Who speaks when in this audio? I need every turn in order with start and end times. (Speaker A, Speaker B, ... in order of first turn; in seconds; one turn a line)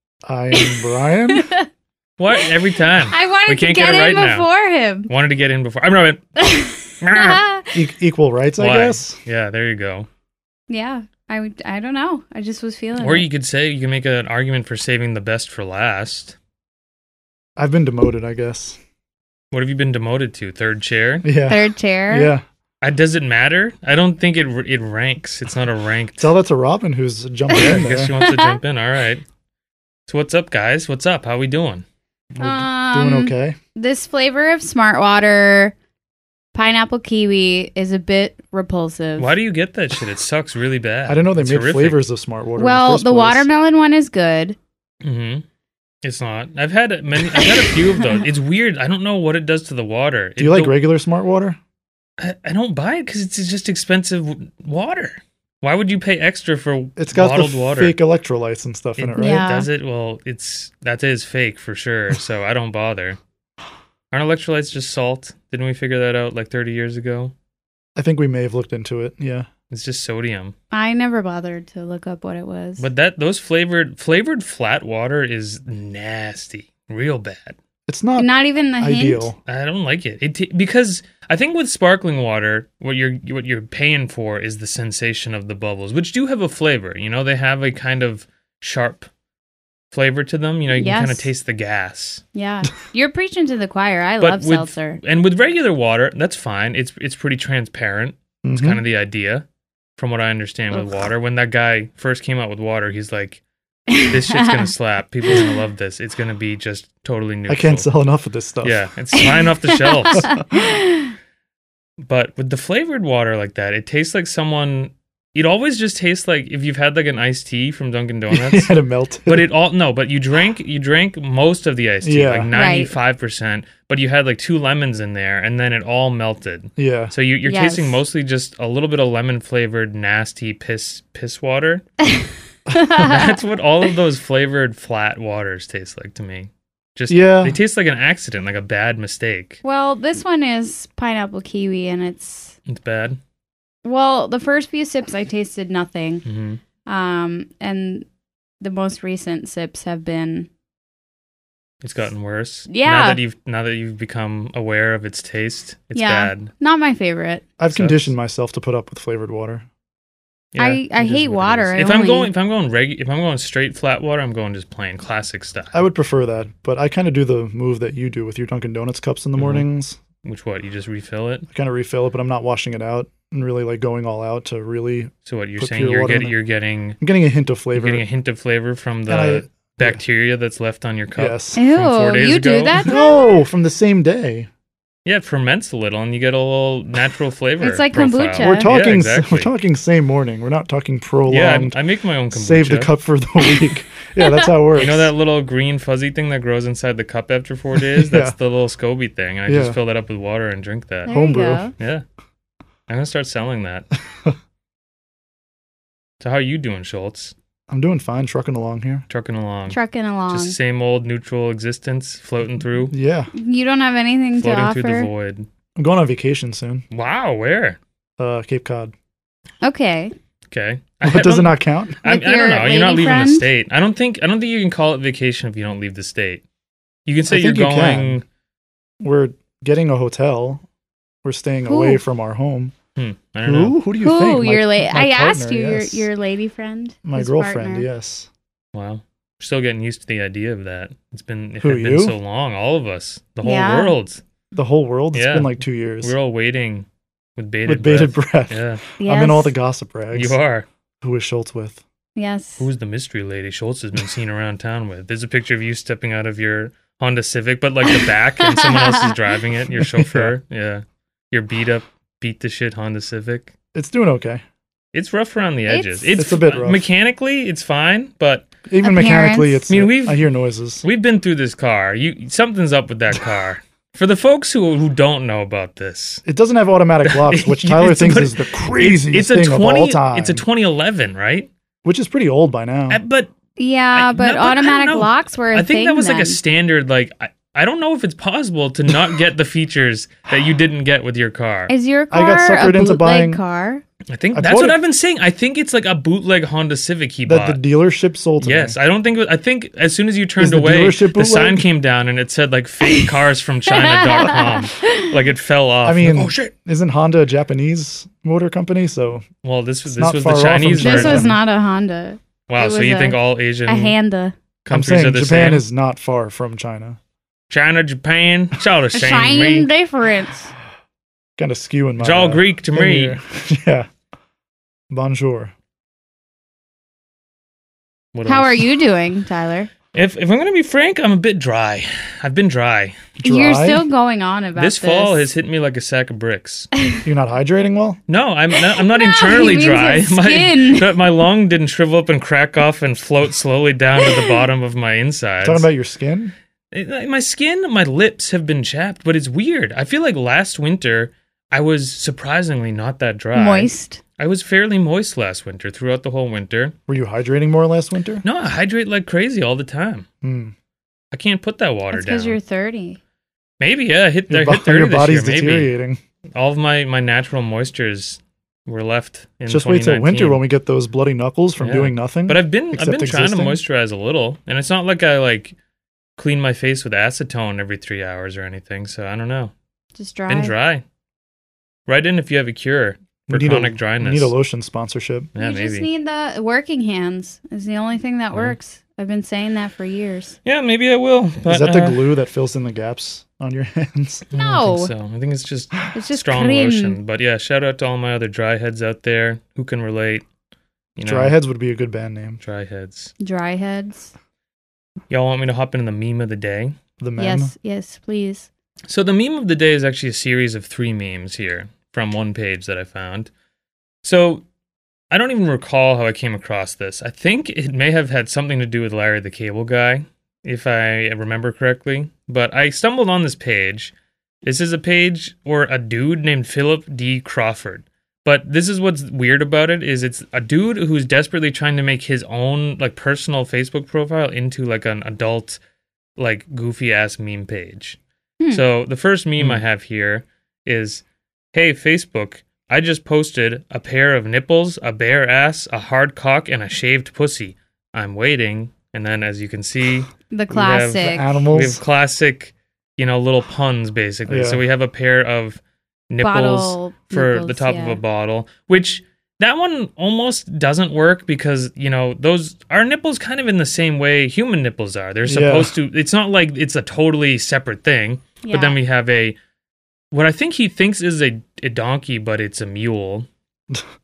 Speaker A: 0.2-1.5
Speaker B: 0.5-1.7
Speaker C: 2.2-4.5
Speaker B: 2.4-5.1
Speaker C: 5.1-6.2
Speaker B: 6.4-7.8
Speaker C: 7.0-7.4
Speaker A: 7.7-9.2
Speaker C: 8.6-10.1
Speaker B: 10.7-13.3
Speaker C: 13.0-16.4
Speaker A: 17.6-18.8
Speaker C: 19.5-21.3
Speaker A: 21.2-22.4
Speaker B: 21.5-22.3
Speaker C: 22.8-26.3
Speaker A: 26.2-28.1
Speaker C: 27.5-29.2
Speaker B: 28.2-28.6
Speaker C: 30.1-31.8
Speaker A: 32.3-33.6
Speaker B: 32.4-35.8
Speaker B: 36.5-39.3
Speaker C: 39.2-42.0
Speaker A: 41.0-43.5
Speaker B: 42.6-44.6
Speaker C: 45.0-45.4
Speaker C: 46.0-50.7
Speaker B: 47.4-48.2
Speaker A: 50.4-51.6
Speaker C: 52.2-58.0
Speaker A: 57.0-59.5
Speaker C: 59.0-63.2
Speaker B: 59.2-59.7
Speaker C: 64.1-67.3
Speaker A: 68.0-69.5
Speaker C: 69.7-70.5
Speaker B: 70.7-72.8
Speaker C: 72.8-77.6
Speaker A: 77.9-78.3
Speaker B: 78.2-79.3
Speaker A: 78.8-79.4
Speaker C: 79.5-89.1
Speaker C: 89.9-92.2
Speaker B: 90.7-91.3
Speaker B: 92.3-95.0
Speaker C: 94.2-99.5
Speaker A: 98.4-98.8
Speaker C: 100.0-103.4
Speaker B: 103.9-104.7
Speaker C: 104.0-107.9
Speaker B: 105.3-105.6
Speaker A: 107.5-108.8
Speaker C: 108.6-110.4
Speaker B: 109.1-111.1
Speaker C: 112.0-118.7
Speaker A: 118.3-119.5
Speaker C: 119.3-131.8
Speaker A: 122.0-122.5
Speaker B: 122.5-122.9
Speaker A: 126.8-127.1
Speaker B: 127.5-128.0
Speaker B: 132.0-133.4
Speaker C: 132.9-139.6
Speaker A: 137.1-137.6
Speaker B: 139.6-142.6
Speaker C: 142.7-143.2
Speaker B: 143.8-146.2
Speaker C: 146.2-146.6
Speaker B: 146.8-148.1
Speaker B: 148.6-150.5
Speaker C: 151.8-156.5
Speaker B: 152.7-153.2
Speaker B: 155.9-157.4
Speaker A: 157.6-159.6
Speaker C: 157.7-158.1
Speaker C: 160.5-165.8
Speaker B: 160.6-162.3
Speaker A: 165.7-170.0
Speaker C: 169.4-169.6
Speaker C: 170.2-171.4
Speaker A: 171.5-176.3
Speaker C: 175.2-177.0
Speaker A: 177.0-178.0
Speaker C: 177.8-182.9
Speaker A: 179.1-180.0
Speaker A: 181.2-181.6
Speaker B: 181.6-183.4
Speaker A: 182.8-184.5
Speaker C: 185.1-189.5
Speaker B: 187.6-188.7
Speaker A: 188.4-191.8
Speaker C: 191.3-192.9
Speaker A: 192.3-195.1
Speaker B: 194.2-194.5
Speaker C: 194.8-201.1
Speaker A: 197.9-198.3
Speaker A: 199.5-199.8
Speaker B: 201.1-201.7
Speaker A: 201.1-201.7
Speaker C: 201.8-202.0
Speaker C: 202.9-203.9
Speaker C: 206.2-207.3
Speaker A: 207.7-209.1
Speaker C: 209.1-209.8
Speaker B: 209.7-210.6
Speaker C: 210.3-212.9
Speaker A: 212.9-213.3
Speaker B: 213.3-215.1
Speaker C: 214.4-215.5
Speaker A: 215.8-216.8
Speaker C: 216.9-217.8
Speaker A: 218.2-218.9
Speaker B: 219.6-220.1
Speaker C: 220.5-226.4
Speaker A: 221.0-222.0
Speaker B: 222.0-223.5
Speaker C: 227.1-228.2
Speaker A: 227.3-228.2
Speaker A: 229.0-230.6
Speaker A: 231.2-232.8
Speaker B: 231.7-232.0
Speaker C: 233.0-233.8
Speaker A: 233.4-236.1
Speaker B: 234.0-237.9
Speaker A: 237.1-238.3
Speaker C: 238.7-244.2
Speaker A: 241.6-242.2
Speaker B: 243.4-243.9
Speaker A: 244.5-246.2
Speaker C: 245.1-246.9
Speaker C: 247.4-248.8
Speaker A: 247.7-250.4
Speaker B: 249.0-249.6
Speaker C: 250.1-250.7
Speaker A: 251.0-251.8
Speaker B: 252.2-252.7
Speaker C: 252.6-263.5
Speaker B: 257.9-259.1
Speaker A: 259.8-260.3
Speaker A: 263.7-264.4
Speaker C: 264.9-268.5
Speaker B: 265.7-266.2
Speaker A: 266.2-266.9
Speaker A: 268.7-270.8
Speaker B: 268.8-269.6
Speaker C: 269.7-270.2
Speaker C: 270.8-276.2
Speaker A: 276.2-280.4
Speaker C: 277.1-281.5
Speaker A: 281.8-283.0
Speaker C: 282.9-283.3
Speaker B: 283.6-286.4
Speaker C: 283.9-291.7
Speaker B: 291.7-293.8
Speaker A: 292.1-293.4
Speaker C: 294.1-297.6
Speaker A: 294.3-294.8
Speaker A: 297.2-298.8
Speaker C: 298.4-306.5
Speaker A: 300.4-301.7
Speaker B: 302.8-303.1
Speaker B: 303.7-305.1
Speaker A: 305.9-309.2
Speaker C: 309.4-311.4
Speaker A: 309.9-311.4
Speaker B: 310.8-314.4
Speaker C: 312.5-313.9
Speaker C: 314.6-315.6
Speaker A: 314.7-317.0
Speaker C: 317.5-319.7
Speaker B: 318.9-320.5
Speaker A: 321.4-323.9
Speaker C: 322.0-323.2
Speaker A: 324.9-325.5
Speaker C: 328.1-328.7
Speaker B: 328.2-329.7
Speaker C: 329.9-332.9
Speaker A: 333.2-333.8
Speaker B: 333.2-335.2
Speaker C: 334.6-336.7
Speaker A: 337.1-338.0
Speaker C: 338.1-345.7
Speaker B: 338.7-340.9
Speaker B: 344.1-344.3
Speaker A: 345.4-346.3
Speaker C: 346.7-356.8
Speaker B: 353.3-354.0
Speaker A: 356.9-358.2
Speaker C: 358.2-360.1
Speaker A: 360.2-360.5
Speaker C: 361.1-362.4
Speaker B: 361.9-363.0
Speaker C: 363.6-365.7
Speaker A: 364.3-366.0
Speaker C: 366.4-370.4
Speaker A: 369.5-373.6
Speaker C: 371.6-375.6
Speaker C: 376.2-379.5
Speaker B: 380.0-380.5
Speaker C: 380.3-380.8
Speaker C: 381.9-384.3
Speaker A: 383.3-385.3
Speaker C: 385.3-385.9
Speaker B: 385.4-390.4
Speaker C: 390.4-392.0
Speaker A: 391.5-394.2
Speaker C: 394.3-400.2
Speaker B: 394.3-394.9
Speaker B: 395.9-397.0
Speaker C: 401.0-401.4
Speaker A: 401.1-402.4
Speaker C: 402.4-403.1
Speaker B: 403.2-404.1
Speaker C: 405.1-406.8
Speaker A: 407.0-407.5
Speaker B: 407.2-408.5
Speaker C: 408.9-413.3
Speaker C: 414.0-414.4
Speaker C: 415.1-423.9
Speaker C: 424.4-435.6
Speaker C: 436.2-438.0
Speaker C: 438.5-469.4
Speaker A: 439.4-439.6
Speaker B: 450.3-451.4
Speaker A: 451.0-451.8
Speaker A: 454.3-454.6
Speaker B: 456.2-458.0
Speaker A: 465.2-465.7
Speaker B: 468.4-468.8
Speaker C: 470.1-473.3